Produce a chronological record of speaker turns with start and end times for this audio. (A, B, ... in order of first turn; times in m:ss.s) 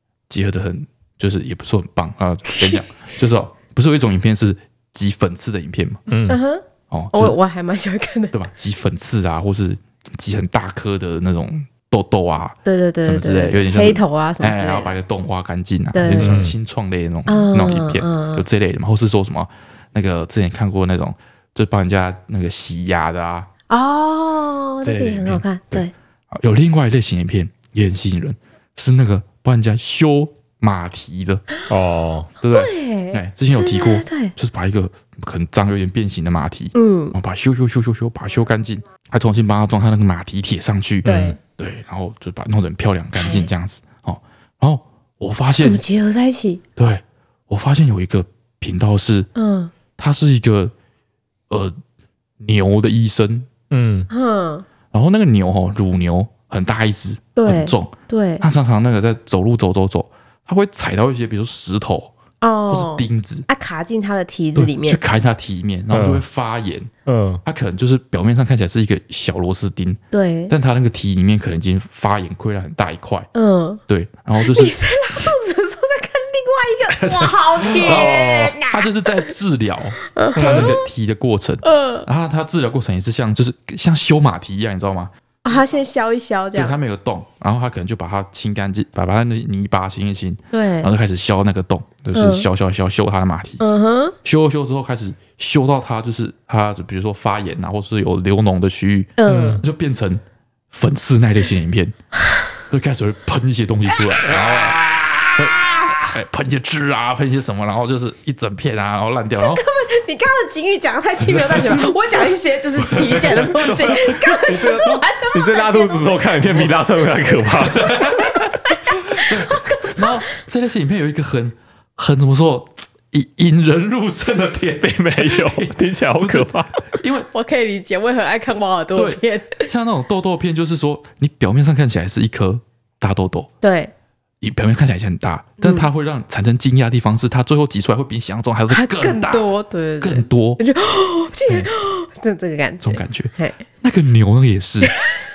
0:00.3-0:06.0 A
0:02.5-0:02.8 B
0:06.1-0:06.4 C
0:06.3-0:08.3 B
0:06.9-0:07.4 A
0:08.3-0:23.5 A
0:12.6-0:14.9 B
0:15.9-0:16.4 B
0:16.1-0:16.5 C
0:17.3-0:18.4 B
0:23.7-0:25.9 B
0:24.8-0:31.4 A
0:31.7-0:32.3 C
0:32.4-0:45.8 A
0:32.4-0:34.3 B
0:36.7-0:37.2 B
0:41.0-0:41.4 C
0:41.0-0:41.4 B
0:43.2-0:43.5 B
0:45.5-0:46.6 B
0:46.8-0:49.3 A
0:49.3-0:49.7 B
0:50.0-0:50.7 A
0:52.4-0:53.5 A
0:53.7-0:54.1 C
0:54.1-0:54.6 B
0:54.9-1:02.1 A
0:57.4-0:58.4 B
1:02.4-1:05.0 B
1:02.7-1:03.5 A
1:04.6-1:06.9 A
1:05.9-1:06.2 C
1:07.0-1:07.4 C
1:07.4-1:13.3 A
1:10.1-1:10.5 B
1:13.3-1:13.8 B
1:13.9-1:14.8 A
1:14.4-1:19.3 B
1:16.9-1:25.1 A
1:17.8-1:18.5 C
1:20.1-1:20.8 B
1:20.4-1:20.8 C
1:21.6-1:22.0 B
1:25.4-1:26.8 B
1:26.5-1:33.6 A
1:30.5-1:30.9 B
1:32.1-1:32.5 B
1:33.6-1:34.2 B
1:34.2-1:41.9 A
1:39.2-1:39.6 B
1:39.2-1:39.6 C
1:42.7-1:44.8 A
1:44.3-1:46.0 B
1:45.4-1:49.6 A
1:49.4-1:56.2 B
1:51.4-1:51.7 A
1:52.8-1:53.8 A
1:53.5-1:57.9 C
1:57.6-2:07.3 A
1:58.2-2:00.1 B
2:04.8-2:06.7 C
2:07.3-2:09.7 B
2:08.9-2:13.5 A
2:13.6-2:13.9 B
2:14.4-2:19.5 A
2:15.6-2:15.9 B
2:18.7-2:23.6 B
2:20.0-2:20.6 A
2:22.8-2:24.9 A
2:24.8-2:25.1 B